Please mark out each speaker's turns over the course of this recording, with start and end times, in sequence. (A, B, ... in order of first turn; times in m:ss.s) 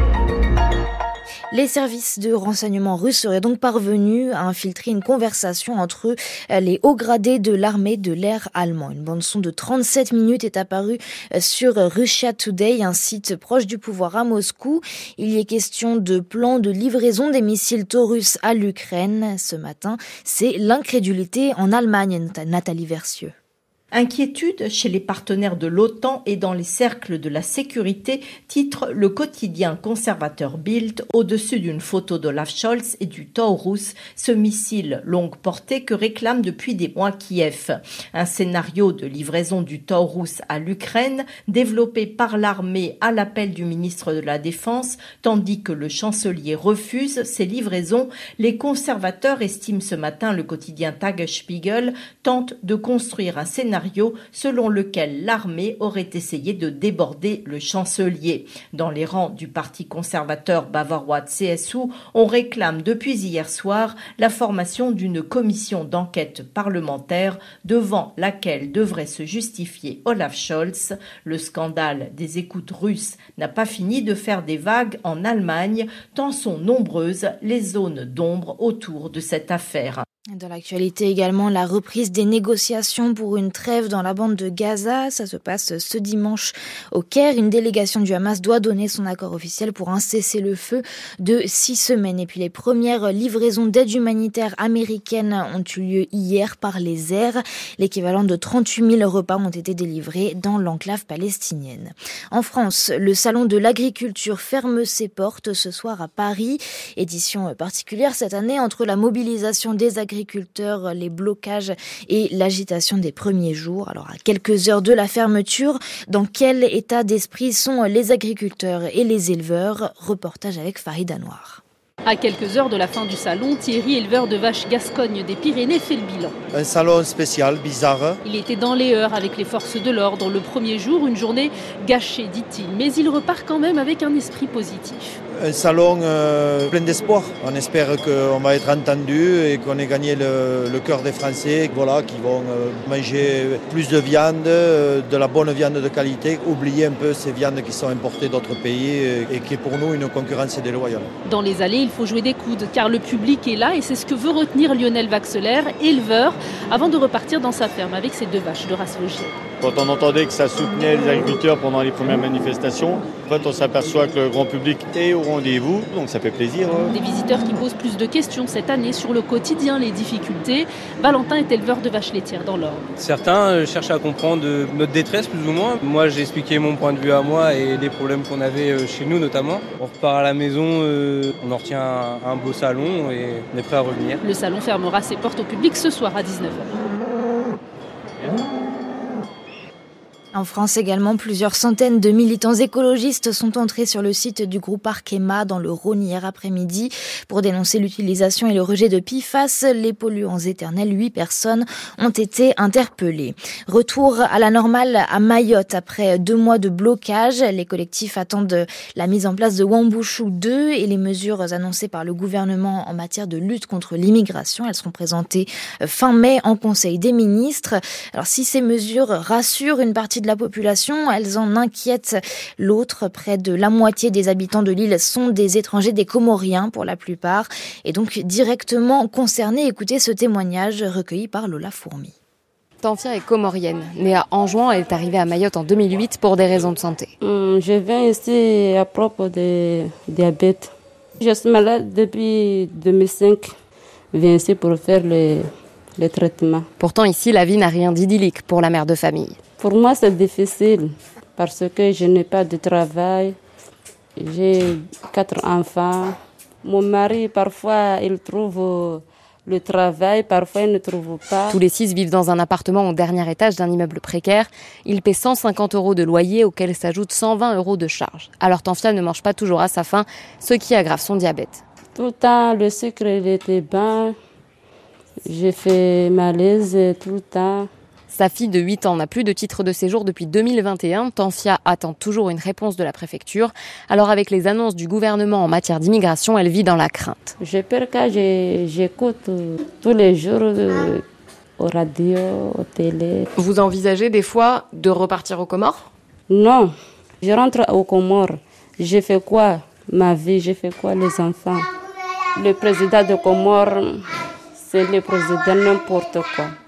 0:01.5-0:23.3 A
0:23.9-1:20.0 B
1:20.3-2:01.6 A
2:02.1-2:06.4 C
2:06.5-2:08.2 D
2:08.2-2:15.2 C
2:15.4-2:31.1 D
2:31.2-2:39.3 C
2:39.6-2:46.9 E
2:46.9-2:52.8 C
2:53.0-3:04.2 F
3:04.2-3:06.7 C
3:10.3-3:52.2 A
3:52.8-3:57.1 G
3:57.2-4:03.5 H
4:04.1-4:06.7 H
4:06.8-4:09.4 G
4:09.6-4:13.4 H
4:14.2-4:21.6 H
4:21.5-4:31.6 G
4:32.0-4:34.1 H
4:35.3-4:37.7 H
4:38.1-4:47.4 G
4:47.4-4:51.0 H
4:51.6-4:53.3 H
4:53.4-4:55.9 G
4:56.3-5:01.7 H
5:02.4-5:04.0 H
5:04.6-5:06.5 H